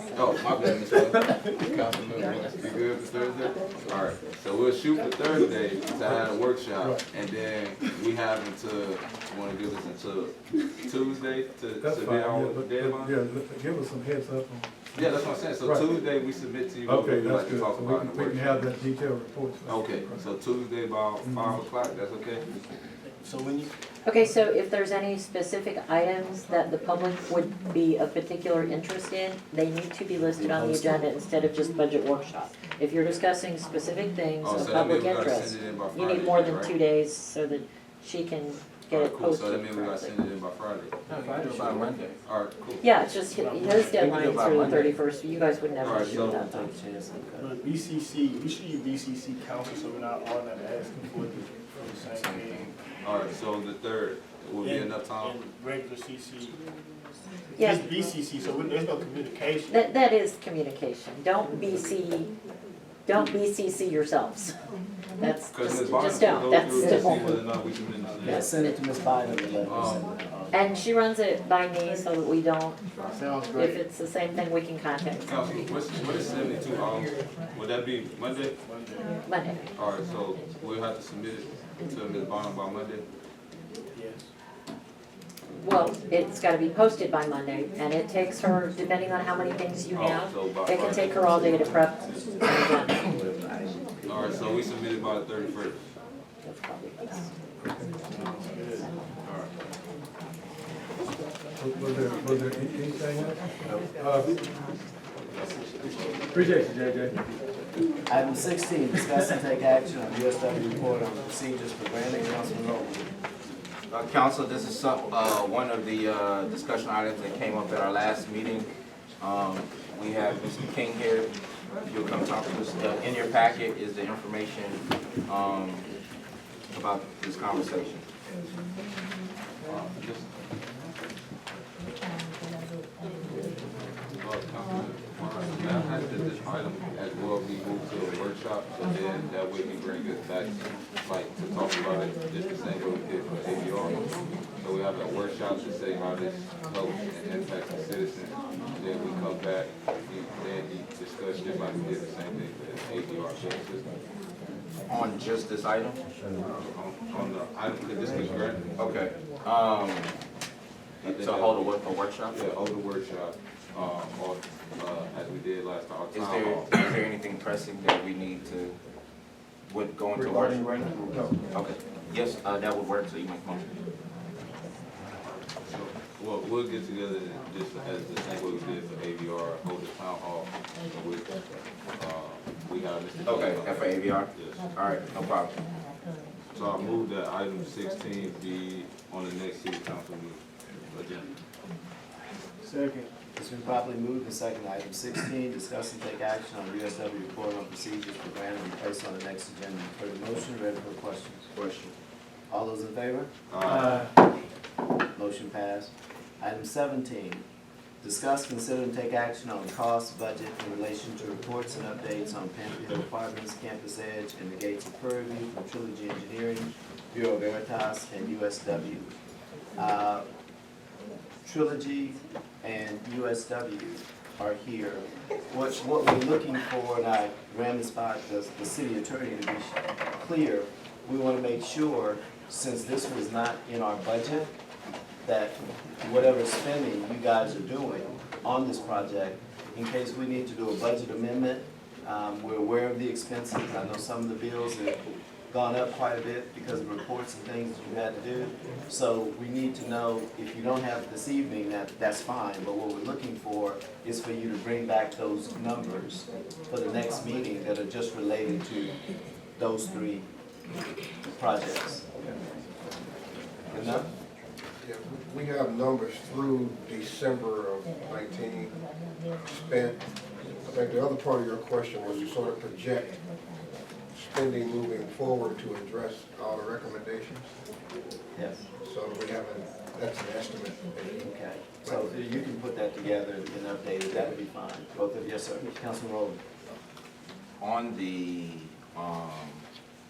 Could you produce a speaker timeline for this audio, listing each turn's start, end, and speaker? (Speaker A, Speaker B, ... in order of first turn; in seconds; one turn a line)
Speaker A: 0.1-0.7
Speaker B: 0.4-2.6
Speaker A: 2.6-13.3
Speaker C: 11.8-15.9
Speaker A: 14.9-18.7
Speaker C: 16.9-20.3
Speaker A: 19.6-22.5
Speaker C: 21.2-21.6
Speaker D: 23.2-23.7
Speaker E: 24.0-40.2
Speaker F: 30.4-31.0
Speaker A: 34.4-36.7
Speaker A: 38.9-41.0
Speaker B: 41.1-42.2
Speaker A: 42.2-42.8
Speaker E: 42.8-46.7
Speaker D: 43.3-44.3
Speaker B: 43.9-45.0
Speaker A: 45.8-46.4
Speaker F: 45.8-47.5
Speaker D: 47.4-52.7
Speaker B: 52.1-52.7
Speaker A: 53.0-55.4
Speaker D: 54.6-56.6
Speaker E: 57.6-57.9
Speaker D: 57.6-59.8
Speaker E: 59.7-62.3
Speaker E: 63.1-64.5
Speaker E: 65.2-67.4
Speaker A: 65.5-68.4
Speaker F: 68.2-70.2
Speaker E: 68.3-68.7
Speaker A: 69.7-70.1
Speaker E: 70.5-72.8
Speaker B: 73.0-73.8
Speaker E: 73.5-75.3
Speaker A: 75.3-78.6
Speaker D: 78.7-79.1
Speaker E: 79.2-79.7
Speaker A: 79.7-83.1
Speaker D: 83.9-84.3
Speaker E: 85.6-93.0
Speaker A: 89.9-91.7
Speaker F: 91.5-94.4
Speaker A: 94.1-95.8
Speaker E: 96.4-97.3
Speaker D: 98.1-98.9
Speaker C: 101.6-104.4
Speaker A: 106.3-106.9
Speaker F: 108.1-113.1
Speaker B: 113.9-121.3
Speaker B: 121.9-125.9
Speaker B: 126.7-128.1
Speaker A: 129.7-130.3
Speaker A: 134.2-144.1
Speaker A: 144.6-153.9
Speaker B: 154.9-156.0
Speaker A: 156.6-159.1
Speaker B: 158.8-160.1
Speaker B: 161.0-162.4
Speaker A: 161.1-161.7
Speaker A: 162.3-166.7
Speaker B: 166.1-168.8
Speaker B: 169.7-170.8
Speaker G: 170.2-171.4
Speaker B: 171.5-173.8
Speaker A: 175.7-181.4
Speaker A: 182.0-184.7
Speaker B: 183.2-185.5
Speaker A: 186.5-191.3
Speaker D: 192.6-193.1
Speaker F: 193.3-201.5
Speaker B: 201.5-201.9
Speaker F: 202.5-203.3
Speaker A: 203.5-204.1
Speaker F: 205.2-207.4
Speaker F: 208.0-219.1
Speaker F: 219.8-220.3
Speaker F: 221.4-234.5
Speaker F: 235.2-245.0
Speaker F: 245.5-258.9
Speaker F: 259.6-260.3
Speaker F: 261.4-262.1
Speaker G: 263.7-264.1
Speaker F: 263.7-264.1
Speaker G: 264.8-268.8
Speaker G: 269.3-270.0
Speaker G: 270.6-273.2
Speaker G: 274.1-277.5
Speaker F: 278.4-278.7
Speaker G: 278.8-281.2
Speaker F: 281.2-286.4
Speaker G: 281.8-282.2
Speaker B: 287.6-289.6